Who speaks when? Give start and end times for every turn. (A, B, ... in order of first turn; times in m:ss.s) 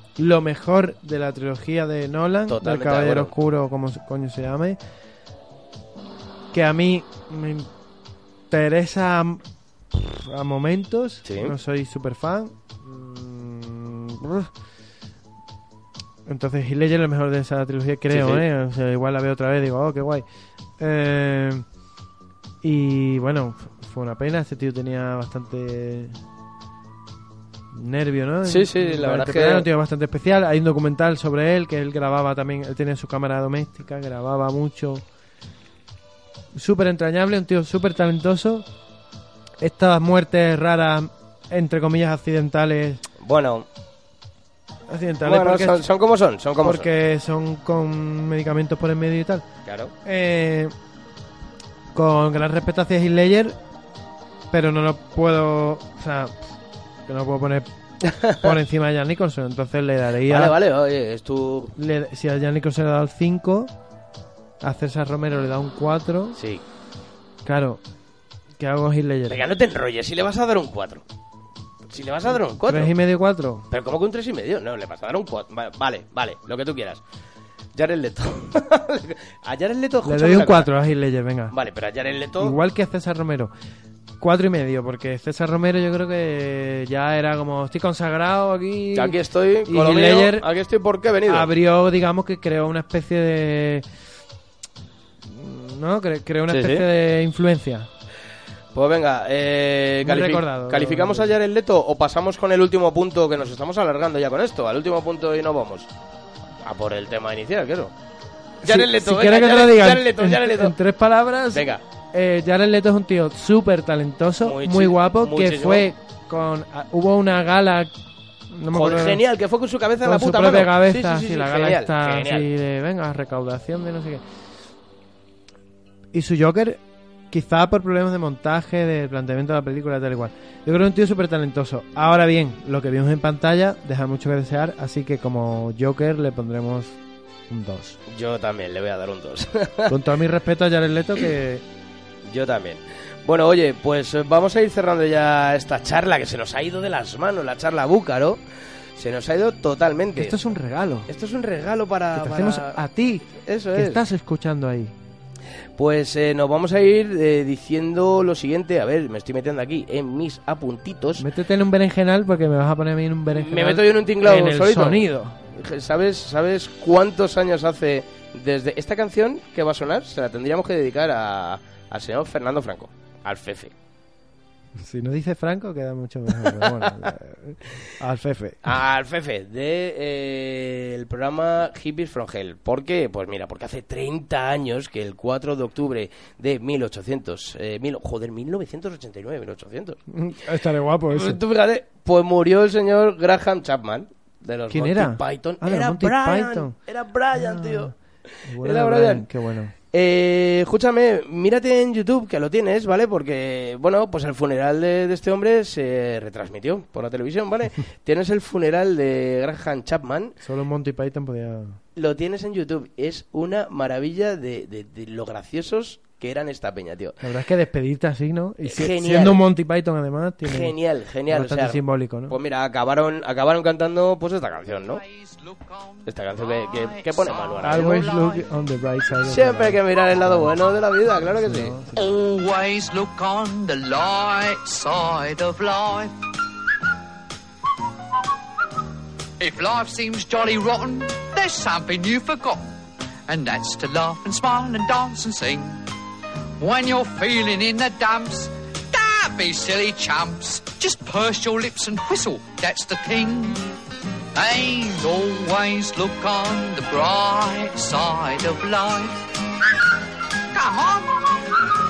0:00.2-0:04.8 A
0:02.5-0:03.3 B
0:06.5-0:07.7 A
0:08.5-0:14.5 A
0:11.2-0:11.5 B
0:16.3-0:20.2 A
0:18.1-0:18.4 B
0:20.8-0:21.6 A
0:22.6-0:26.2 A
0:27.7-0:35.0 A
0:28.5-0:29.7 B
0:36.5-0:38.7 A
0:39.6-0:43.0 A
0:43.2-0:43.7 B
0:44.9-0:45.8 A
0:45.2-0:46.9 B
0:46.6-0:49.5 A
0:49.6-0:49.9 B
0:50.0-0:50.7 A
0:51.9-0:53.6 A
0:54.5-0:57.7 A
0:58.0-0:58.5 B
0:58.2-1:00.6 A
1:00.2-1:01.7 B
1:01.8-1:03.7 A
1:04.6-1:06.4 A
1:06.4-1:06.6 B
1:07.4-1:07.8 A
1:08.6-1:09.4 A
1:09.3-1:11.0 B
1:11.9-1:12.9 B
1:12.6-1:13.7 A
1:13.7-1:17.0 B
1:17.8-1:20.7 B
1:20.0-1:21.5 A
1:21.5-1:22.6 B
1:22.4-1:23.5 A
1:24.2-1:30.5 A
1:28.9-1:31.5 B
1:31.3-1:33.8 A
1:35.3-1:37.9 A
1:36.5-1:36.8 B
1:38.7-1:45.9 B
1:40.0-1:41.4 A
1:46.6-1:47.9 B
1:48.6-1:57.9 A
1:48.6-1:50.7 B
1:51.5-1:51.8 B
1:54.4-1:55.9 B
1:58.5-1:59.2 A
1:58.7-2:02.5 B
2:00.0-2:04.2 A
2:06.1-2:17.0 A
2:17.5-2:18.0 A
2:18.1-2:20.0 B
2:19.9-2:21.6 A
2:22.2-2:28.4 B
2:29.0-2:30.4 B
2:30.2-2:31.1 A
2:31.1-2:34.0 B
2:32.2-2:34.9 A
2:35.8-2:41.3 B
2:41.2-2:45.4 A
2:43.3-2:53.7 B
2:54.8-2:58.7 A
2:56.4-2:56.9 B
2:58.6-3:10.0 B
3:10.1-3:11.4 A
3:11.1-3:17.9 B
3:14.7-3:16.8 A
3:17.4-3:17.9 A
3:18.4-3:19.7 A
3:18.6-3:19.3 B
3:19.9-3:30.4 B
3:30.4-3:31.8 A
3:32.0-3:37.2 B
3:37.2-3:40.8 A
3:38.6-3:39.4 B
3:40.4-3:45.0 B
3:41.3-3:42.4 A
3:44.8-3:48.5 C
3:46.1-3:48.1 B
3:47.6-3:50.6 A
3:49.2-3:51.8 B
3:51.1-3:52.0 A
3:52.0-3:56.2 C
3:59.4-4:02.6 C
4:03.3-4:05.8 C
4:06.6-4:13.7 C
4:14.4-4:19.2 C
4:20.5-4:21.2 C